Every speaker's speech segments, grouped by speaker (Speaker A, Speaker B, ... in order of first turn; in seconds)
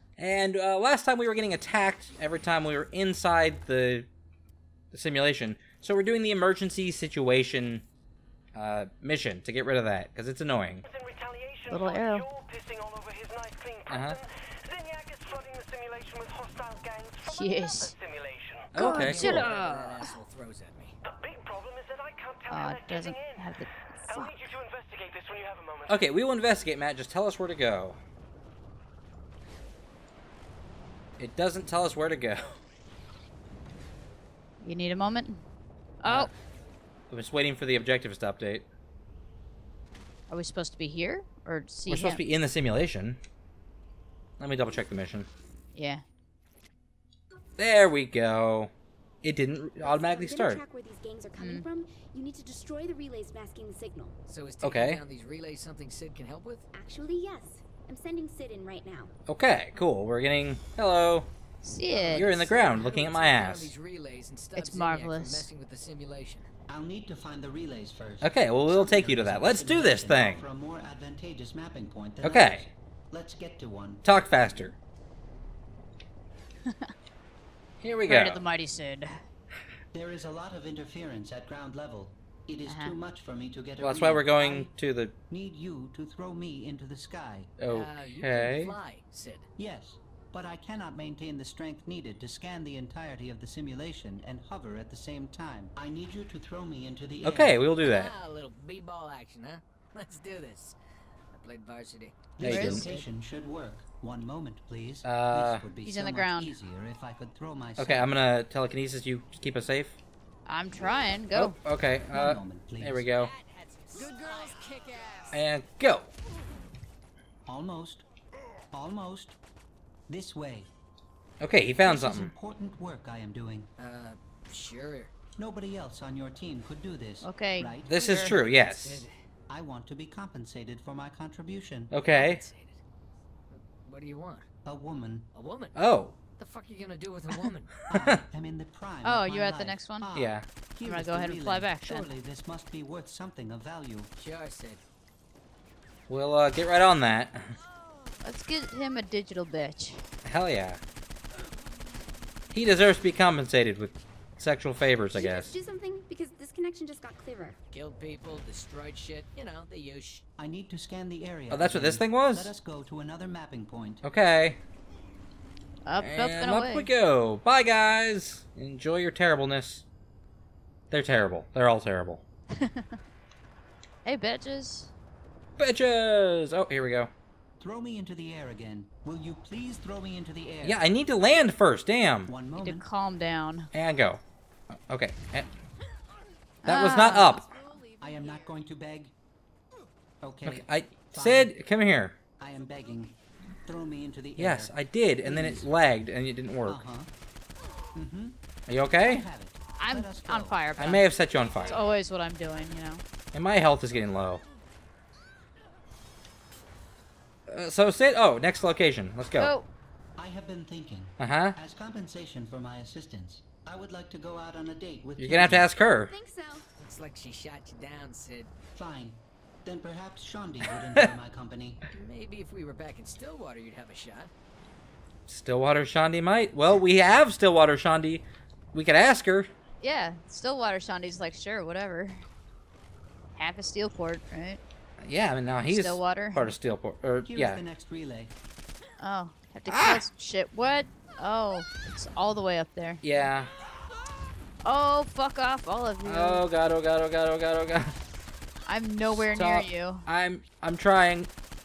Speaker A: 0.2-4.1, 4.9-7.8, 8.5-10.8, 13.9-14.2, 18.7-19.5, 25.9-28.0, 31.2-32.5, 36.0-36.3, 37.1-38.7, 41.9-43.2, 44.4-45.3, 47.6-48.7, 49.2-50.6, 54.6-55.0, 59.3-61.3, 62.1-63.7, 68.2-70.5, 72.2-72.6, 74.0-74.7, 77.8-78.4, 83.8-85.1, 87.6-88.7, 97.2-98.1, 102.4-102.9, 105.0-105.7, 107.8-110.0, 111.3-113.3, 115.3-116.1, 121.4-122.3, 127.8-129.1, 131.9-132.4, 135.8-136.2, 140.1-140.4, 146.1-147.5, 150.2-150.8, 152.5-155.5, 161.5-162.5, 164.0-164.6, 166.0-169.8, 170.9-172.2, 175.6-177.1, 180.6-182.3, 183.7-184.2, 184.7-185.5, 186.6-187.5, 190.4-192.2, 194.3-196.8, 198.7-199.2, 200.8-201.8, 203.3-204.4, 207.5-209.5, 211.2-211.6, 215.2-216.1, 225.3-229.5, 235.0-237.6, 239.7-240.0, 243.0-243.5, 246.0-247.9, 249.1-251.3
Speaker B: 11.1-13.8, 15.0-17.3, 21.3-23.4, 24.1-25.8
Speaker C: 11.7-12.3, 17.2-18.0, 18.8-20.1, 22.5-24.5, 34.6-35.4, 36.0-36.3, 40.3-42.2, 45.7-46.0, 51.4-51.6, 61.6-62.4, 64.5-65.5, 78.0-79.2, 82.7-82.9, 102.5-103.0, 105.8-106.5, 110.5-111.6, 127.2-128.3, 139.0-140.1, 140.8-142.2, 148.2-150.1, 165.8-166.9, 172.5-172.8, 174.0-174.9, 182.6-183.7, 186.6-187.4, 199.8-201.1, 201.6-203.0, 209.4-209.7, 229.8-232.3, 233.3-234.6, 235.7-236.5, 239.0-243.0, 244.6-246.4, 248.7-250.1
Speaker D: 18.8-21.0, 54.3-56.6, 61.9-66.5, 87.7-89.5, 97.8-100.8, 101.3-102.4, 113.2-115.4, 123.8-125.1, 128.6-129.1, 132.1-132.8, 133.5-134.5, 135.3-135.8, 136.4-137.8, 144.2-144.8, 157.7-160.2, 216.8-218.5, 221.9-224.3
Speaker E: 49.8-54.1, 56.7-59.1, 155.1-157.6, 216.1-216.7
Speaker F: 66.7-74.0, 79.9-84.7, 85.3-87.5, 89.6-97.6, 102.4-108.1, 112.1-113.1, 117.5-118.0, 118.7-119.4, 120.1-120.7, 121.8-123.7, 125.3-128.3, 129.5-131.9, 134.6-135.3, 137.9-144.1, 160.4-164.0, 177.6-180.8, 182.2-182.8, 187.9-189.1, 190.2-191.5, 192.4-193.1, 193.7-195.7, 196.6-197.1, 197.9-198.4, 199.0-200.7, 210.2-215.7, 218.7-221.8, 237.2-238.3